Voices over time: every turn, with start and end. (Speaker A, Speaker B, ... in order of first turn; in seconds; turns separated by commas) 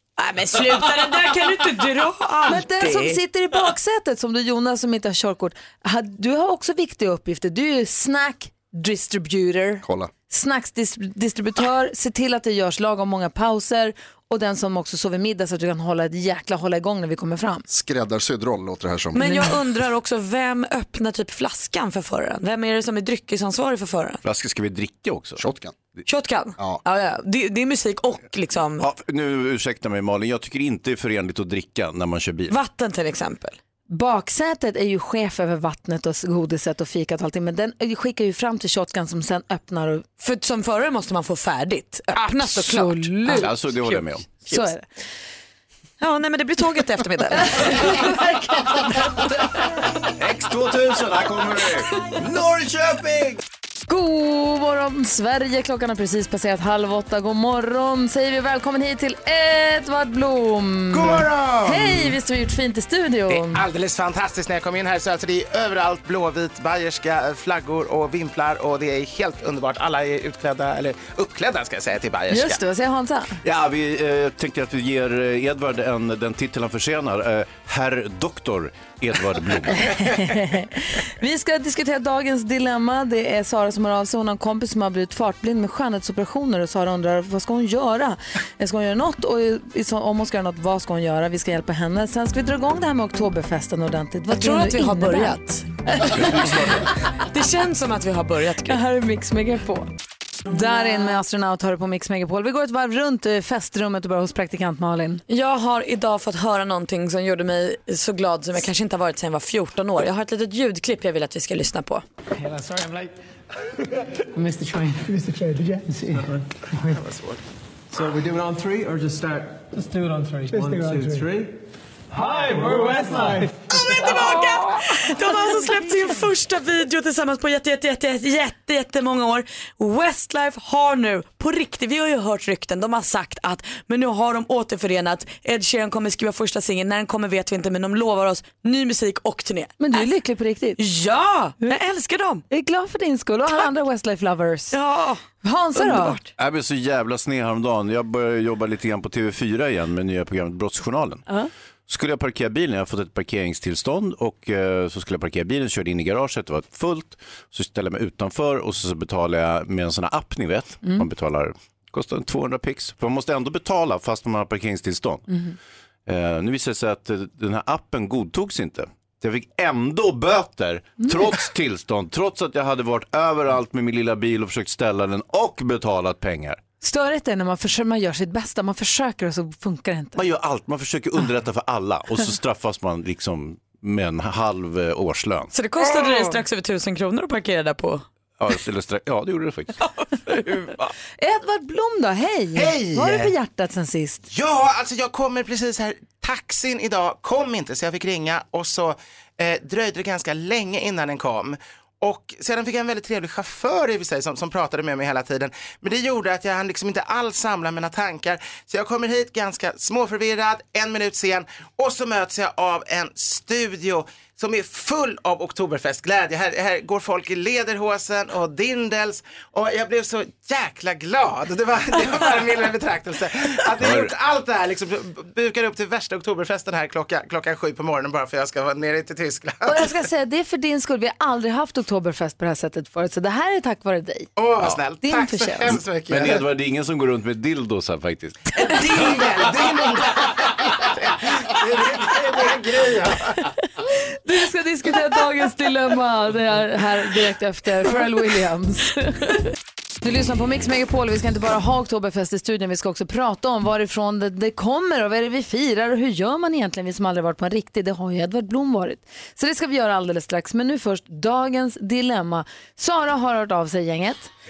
Speaker A: 0.2-3.2, Speaker B: 2.5-17.7, Speaker C: 9.8-10.1, Speaker C: 17.7-19.5, Speaker A: 19.1-24.2, Speaker B: 19.1-19.6, Speaker D: 24.2-25.4, Speaker C: 25.4-25.8, Speaker A: 26.1-28.9, Speaker D: 28.8-32.6, Speaker A: 32.5-33.6, Speaker B: 33.9-40.0, Speaker A: 40.2-44.0, Speaker B: 42.1-43.5, Speaker D: 43.2-44.3, Speaker B: 44.4-44.9, Speaker A: 46.0-48.2, Speaker B: 47.5-49.7, Speaker D: 50.0-53.4, Speaker B: 53.9-63.6, Speaker E: 60.9-62.1, Speaker E: 63.3-72.6, Speaker B: 72.3-73.4, Speaker D: 73.4-80.0, Speaker B: 79.7-96.6, Speaker A: 94.3-95.8, Speaker D: 96.0-96.9, Speaker A: 97.1-98.8, Speaker B: 98.7-99.9, Speaker B: 100.5-105.2, Speaker A: 105.3-112.0, Speaker F: 112.4-113.1, Speaker F: 114.3-116.4, Speaker E: 116.9-117.4, Speaker F: 117.9-121.5, Speaker F: 122.1-123.8, Speaker A: 123.7-140.1, Speaker B: 139.8-140.8, Speaker A: 140.8-142.4, Speaker B: 142.5-144.8, Speaker A: 144.7-145.2, Speaker B: 145.4-146.2, Speaker A: 145.8-146.3, Speaker D: 146.4-151.2, Speaker D: 151.9-165.4, Speaker D: 166.1-176.6, Speaker B: 176.8-180.2, Speaker D: 180.2-185.5, Speaker A: 185.5-188.1, Speaker D: 188.4-189.8, Speaker A: 189.8-190.8, Speaker B: 191.2-194.2, Speaker E: 192.5-193.3, Speaker E: 194.3-229.9, Speaker D: 223.8-224.1, Speaker B: 229.7-234.3, Speaker E: 234.4-236.4, Speaker B: 235.0-235.8, Speaker D: 236.1-238.4, Speaker E: 238.6-243.5, Speaker B: 244.0-249.4, Speaker B: 250.0-264.3